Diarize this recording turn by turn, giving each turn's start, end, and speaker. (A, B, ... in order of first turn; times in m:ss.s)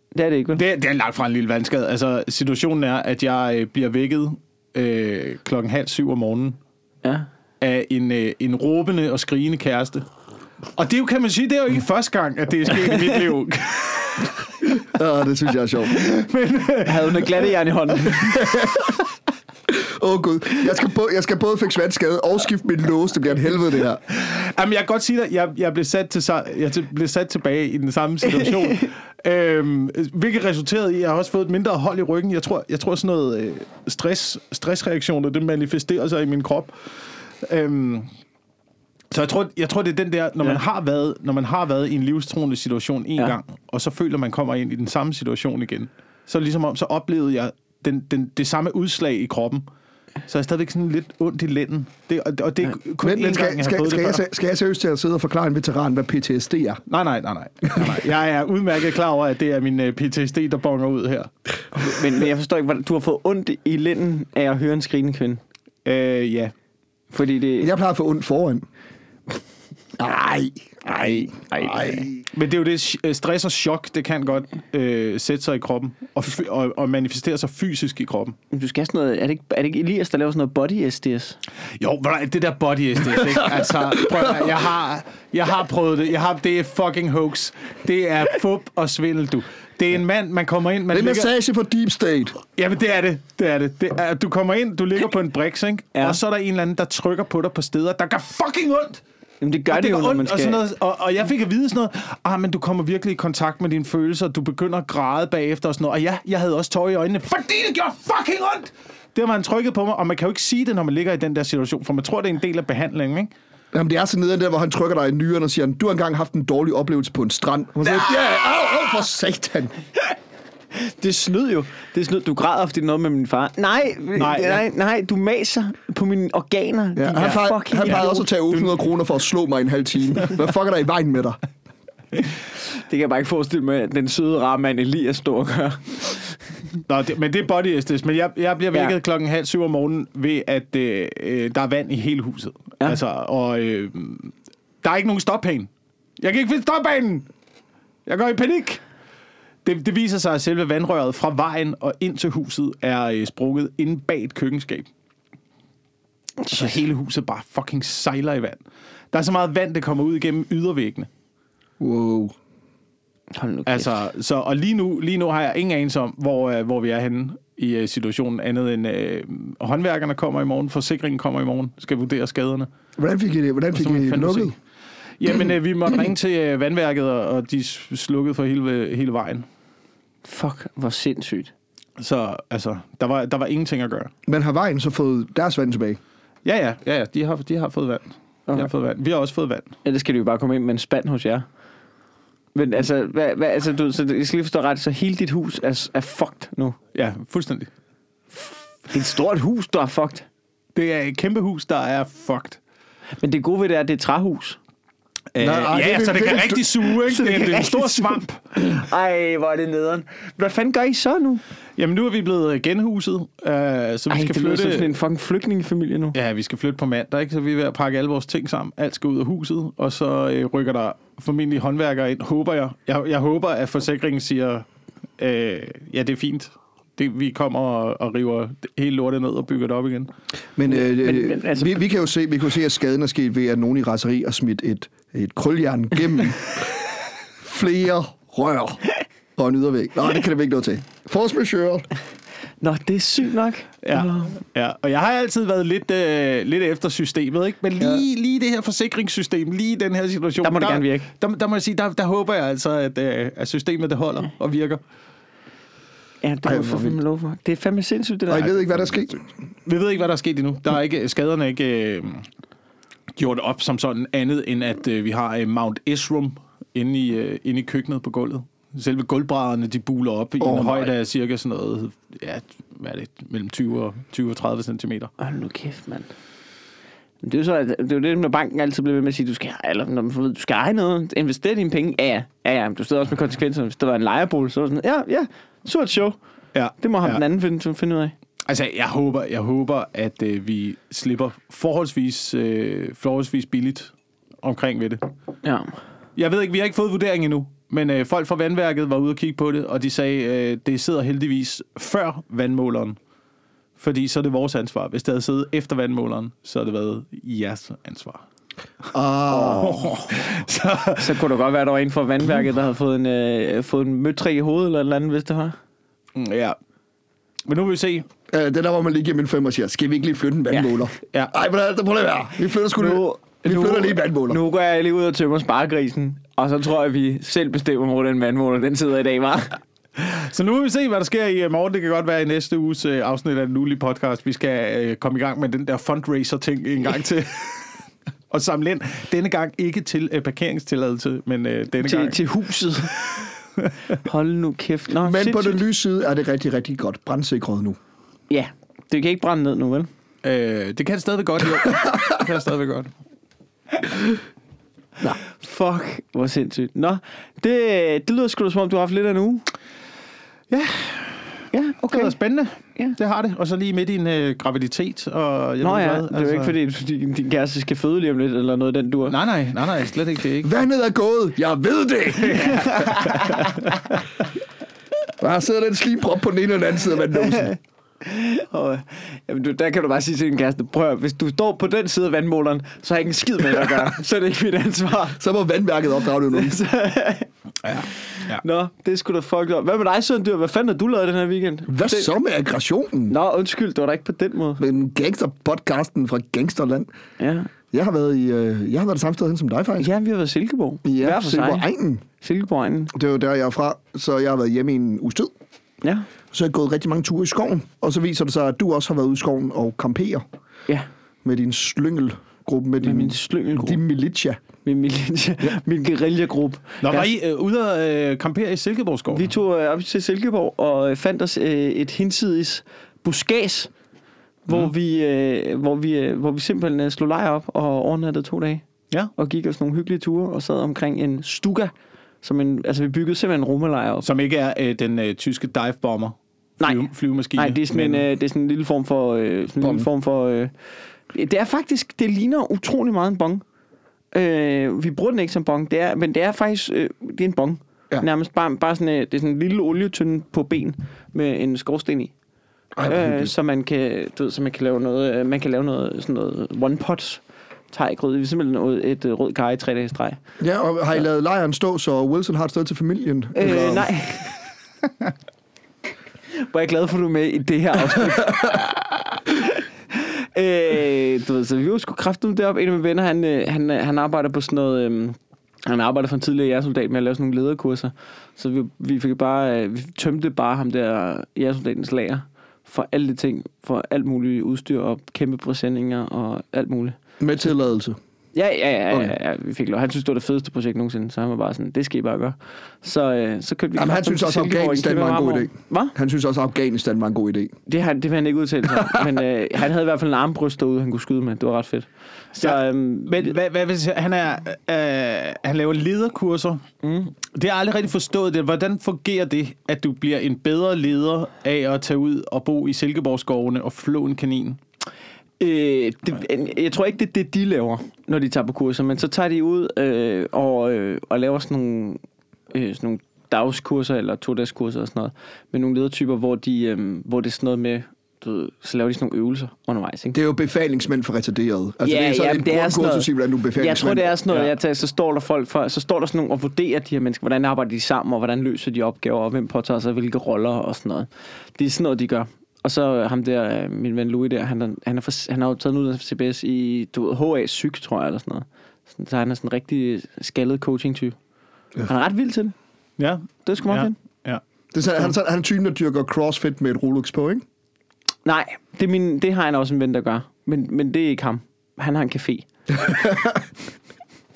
0:00.1-0:00.6 A
0:00.6-0:06.6 B
0:07.6-0:10.0 B
0:10.8-0:14.5 B
0:14.9-0:16.0 C
0:15.9-0:17.5 B
0:16.8-0:18.5 A
0:18.2-0:18.9 C
0:19.7-0:24.0 C
0:24.1-0:36.8 B
0:37.4-0:38.1 B
0:39.1-0:49.6 B
0:50.3-0:54.2 B
0:53.0-0:56.8 C
0:56.9-1:01.3 B
1:01.7-1:05.4 A
1:05.8-1:06.5 B
1:07.1-1:07.7 A
1:07.6-1:08.7 C
1:10.0-1:12.2 C
1:10.9-1:12.1 A
1:12.3-1:18.4 B
1:18.5-1:21.4 A
1:21.8-1:31.3 B
1:24.0-1:24.3 C
1:30.9-1:32.4 C
1:32.5-1:39.0 B
1:39.4-1:40.6 A
1:39.7-1:53.3 B
1:53.7-1:59.7 C
2:00.7-2:08.3 A
2:04.2-2:04.6 B
2:07.0-2:11.4 C
2:07.2-2:08.7 B
2:12.8-2:16.4 A
2:16.9-2:27.3 B
2:28.1-2:28.8 B
2:29.6-2:34.9 B
2:36.4-2:36.7 A
2:36.5-2:38.6 B
2:39.1-2:41.1 B
2:41.8-2:42.3 C
2:43.3-2:44.0 A
2:43.7-2:52.7 B
2:53.0-2:54.6 C
2:53.7-2:54.6 B
2:55.2-2:59.5 B
3:00.2-3:01.5 A
3:02.0-3:04.1 B
3:04.3-3:06.0 C
3:06.4-3:09.7 B
3:09.8-3:11.4 A
3:12.6-3:16.8 A
3:17.0-3:17.7 B
3:18.4-3:20.3 A
3:20.8-3:22.6 B
3:23.2-3:24.6 A
3:25.3-3:28.4 B
3:25.4-3:26.8 C
3:27.0-3:31.4 A
3:31.8-3:34.9 B
3:34.1-3:36.2 A
3:36.1-3:44.6 B
3:45.2-3:50.1 B
3:50.6-3:56.9 C
3:50.7-3:51.8 A
3:57.4-3:58.8 C
3:59.4-4:01.9 C
4:02.6-4:04.4 A
4:03.8-4:14.8 B
4:10.4-4:11.1 A
4:16.2-4:18.8 A
4:16.4-4:17.0 C
4:18.3-4:19.3 C
4:19.7-4:22.3 B
4:23.2-4:35.1 B
4:30.4-4:30.9 C
4:35.2-4:36.1 A
4:37.2-4:46.2 A
4:46.5-4:47.2 B
4:46.8-4:48.1 A
4:48.5-4:55.0 B
4:55.4-4:55.7 A
4:56.2-5:03.0 B
5:03.8-5:08.2 B
5:08.9-5:09.9 C
5:09.3-5:11.2 B
5:11.0-5:15.6 A
5:16.2-5:16.6 B
5:17.5-5:18.1 B
5:18.3-5:24.4 C
5:20.5-5:20.8 A
5:22.8-5:29.6 A
5:30.0-5:37.7 B
5:38.3-5:42.2 B
5:41.8-5:42.9 A
5:42.8-5:43.7 B
5:44.0-5:45.6 A
5:45.0-5:47.8 C
5:48.3-5:49.9 A
5:50.2-5:52.9 B
5:55.2-5:59.5 A
6:00.5-6:06.6 B
6:01.5-6:02.2 A
6:05.6-6:09.2 A
6:09.1-6:10.5 B
6:10.4-6:12.9 C
6:12.3-6:13.2 B
6:12.5-6:13.5 A
6:15.2-6:17.5 C
6:17.2-6:25.2 A
6:25.2-6:26.6 C
6:26.3-6:32.1 A
6:27.7-6:28.4 B
6:31.7-6:33.2 C
6:33.1-6:34.6 A
6:34.6-6:36.9 C
6:37.2-6:37.5 A
6:37.7-6:39.9 C
6:39.8-6:41.7 A
6:40.8-6:42.0 C
6:42.2-6:42.9 A
6:42.9-6:45.3 C
6:46.3-6:50.2 C
6:51.2-6:54.4 C
6:52.8-6:53.8 A
6:54.6-6:57.1 A
6:56.8-6:59.3 B
6:59.1-7:03.7 A
7:04.5-7:08.6 A
7:09.2-7:14.1 A
7:14.0-7:18.1 B
7:16.6-7:20.5 A
7:19.6-7:19.9 C
7:21.1-7:23.4 A
7:24.1-7:32.1 A
7:32.8-7:33.3 C
7:32.8-7:40.2 A
7:40.4-7:43.9 C
7:43.4-7:44.3 A
7:46.4-8:07.0 A
8:07.2-8:08.0 C
8:08.3-8:16.0 A
8:13.8-8:17.5 C
8:17.7-8:23.4 A
8:22.4-8:26.6 B
8:26.8-8:27.1 A
8:27.3-8:34.6 B
8:35.4-8:42.0 A
8:42.5-8:50.2 A
8:50.1-8:54.2 C
8:51.8-9:11.2 A
9:11.9-9:12.6 A
9:13.0-9:14.4 B
9:13.4-9:14.0 A
9:14.7-9:17.4 C
9:18.2-9:22.5 A
9:22.8-9:23.4 C